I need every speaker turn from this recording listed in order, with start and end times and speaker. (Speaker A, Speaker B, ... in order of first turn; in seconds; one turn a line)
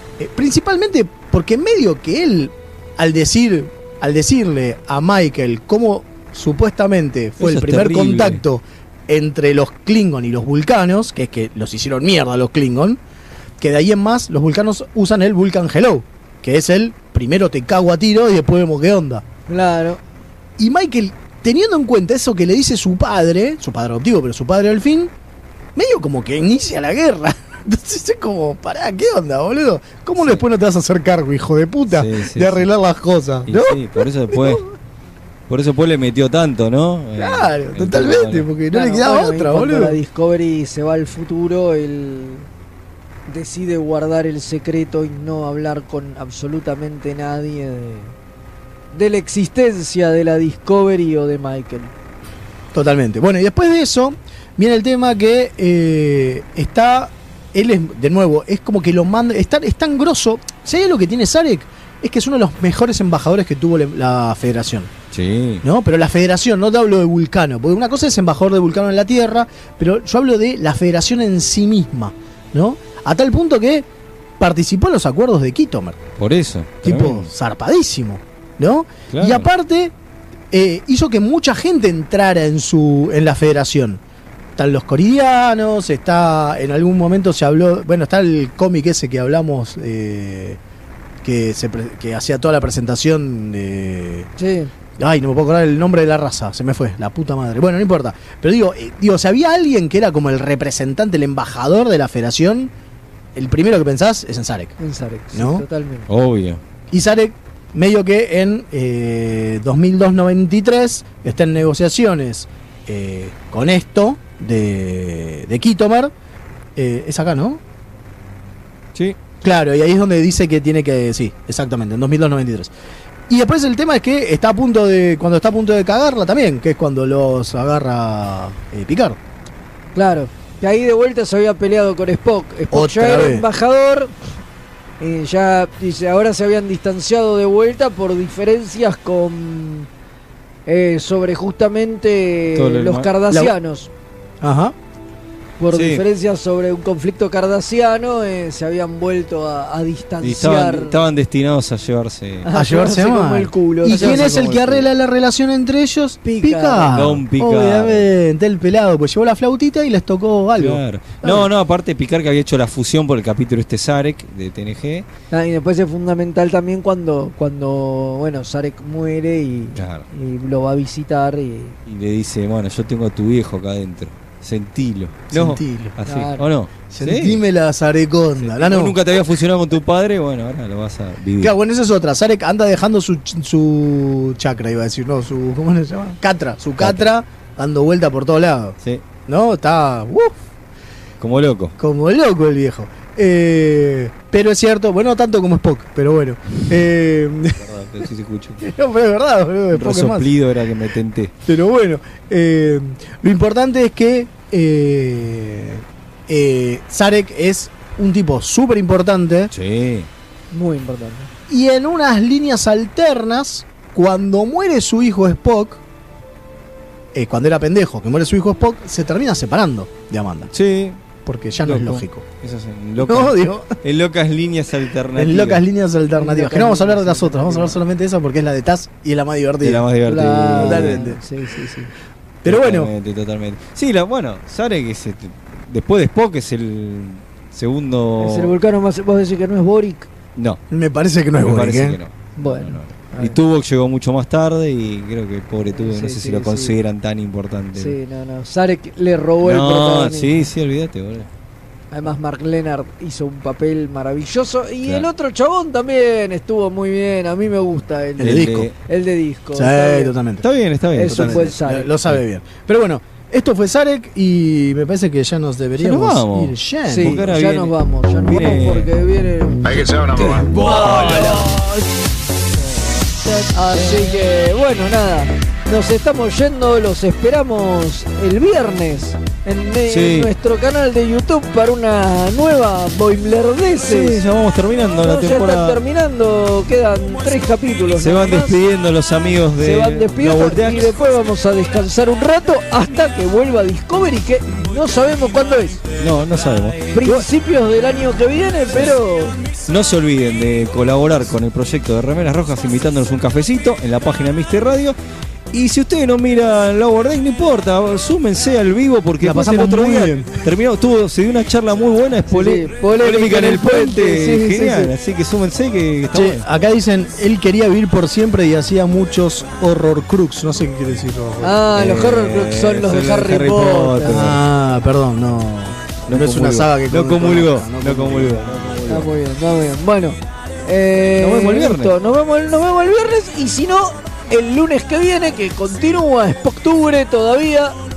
Speaker A: 0.2-13.0
Speaker B: 7.4-8.4
Speaker A: 13.6-19.2
Speaker C: 19.5-20.0
Speaker A: 20.6-25.1
Speaker A: 25.7-34.6
Speaker B: 30.2-30.4
Speaker B: 31.9-32.7
Speaker B: 33.5-34.6
Speaker B: 35.5-38.5
Speaker A: 37.1-40.0
Speaker C: 38.7-42.5
Speaker C: 43.3-48.1
Speaker C: 48.9-51.9
Speaker A: 52.7-64.9
Speaker B: 65.1-65.6
Speaker A: 65.6-73.8
Speaker A: 74.4-76.0
Speaker B: 76.2-77.3
Speaker A: 76.8-79.9
Speaker B: 79.1-79.5
Speaker A: 80.5-84.0
Speaker A: 84.6-90.6
Speaker A: 91.2-94.3
Speaker C: 94.4-94.7
Speaker A: 95.0-102.7
Speaker A: 103.3-104.7
Speaker C: 104.8-106.1
Speaker A: 105.3-105.6
Speaker B: 106.1-106.6
Speaker A: 106.9-116.1
Speaker A: 116.8-117.6
Speaker A: 119.4-122.7
Speaker A: 123.3-129.2
Speaker C: 129.9-134.1
Speaker A: 132.7-133.4
Speaker C: 135.0-139.9
Speaker C: 140.7-143.9
Speaker B: 142.5-143.1
Speaker A: 144.4-144.7
Speaker C: 145.6-151.0
Speaker B: 145.7-146.0
Speaker B: 150.2-152.5
Speaker C: 152.4-154.4
Speaker A: 152.5-161.4
Speaker B: 153.8-154.9
Speaker C: 156.2-157.0
Speaker B: 156.9-158.1
Speaker B: 160.6-165.1
Speaker C: 165.3-171.8
Speaker B: 169.7-170.1
Speaker B: 171.8-177.4
Speaker A: 175.3-175.9
Speaker C: 176.1-176.4
Speaker A: 176.9-179.0
Speaker B: 178.4-181.5
Speaker A: 181.4-188.8
Speaker B: 186.8-187.1
Speaker A: 189.3-190.3
Speaker B: 191.2-191.7
Speaker A: 191.8-197.6
Speaker B: 197.6-198.7
Speaker A: 198.6-200.3
Speaker B: 199.7-201.3
Speaker A: 201.4-209.5
Speaker B: 209.5-210.1
Speaker C: 210.5-211.3
Speaker A: 211.5-215.8
Speaker A: 217.1-220.5
Speaker B: 220.5-221.0
Speaker A: 221.2-222.2
Speaker B: 221.6-225.6
Speaker A: 223.0-223.7
Speaker A: 225.2-229.9
Speaker C: 226.1-227.8
Speaker B: 229.6-231.1
Speaker C: 230.1-231.9
Speaker A: 230.5-231.2
Speaker A: 232.4-232.9
Speaker B: 232.4-238.5
Speaker C: 238.2-240.1
Speaker A: 240.7-242.0
Speaker B: 241.4-248.0
Speaker C: 242.4-243.3
Speaker C: 245.7-246.7
Speaker C: 247.7-250.5
Speaker B: 249.4-251.3
Speaker C: 251.9-260.1
Speaker A: 258.2-258.7
Speaker B: 258.2-258.7
Speaker A: 259.5-260.4
Speaker B: 260.4-262.2
Speaker C: 260.9-261.9
Speaker A: 261.1-267.2
Speaker B: 265.8-268.9
Speaker C: 266.9-271.8
Speaker B: 270.1-271.5
Speaker C: 273.5-284.2
Speaker B: 273.8-274.1
Speaker B: 279.9-280.3
Speaker B: 283.8-285.8
Speaker C: 285.0-288.6
Speaker B: 287.9-291.0
Speaker C: 289.6-295.8
Speaker B: 296.0-297.2
Speaker C: 296.9-299.4
Speaker B: 299.7-304.9
Speaker B: 305.5-316.4
Speaker A: 309.2-310.4
Speaker C: 312.3-314.9
Speaker A: 316.1-321.7
Speaker C: 321.4-324.3
Speaker B: 321.7-324.4
Speaker A: 324.0-328.8
Speaker B: 326.1-329.1
Speaker C: 328.9-337.8
Speaker B: 331.2-331.9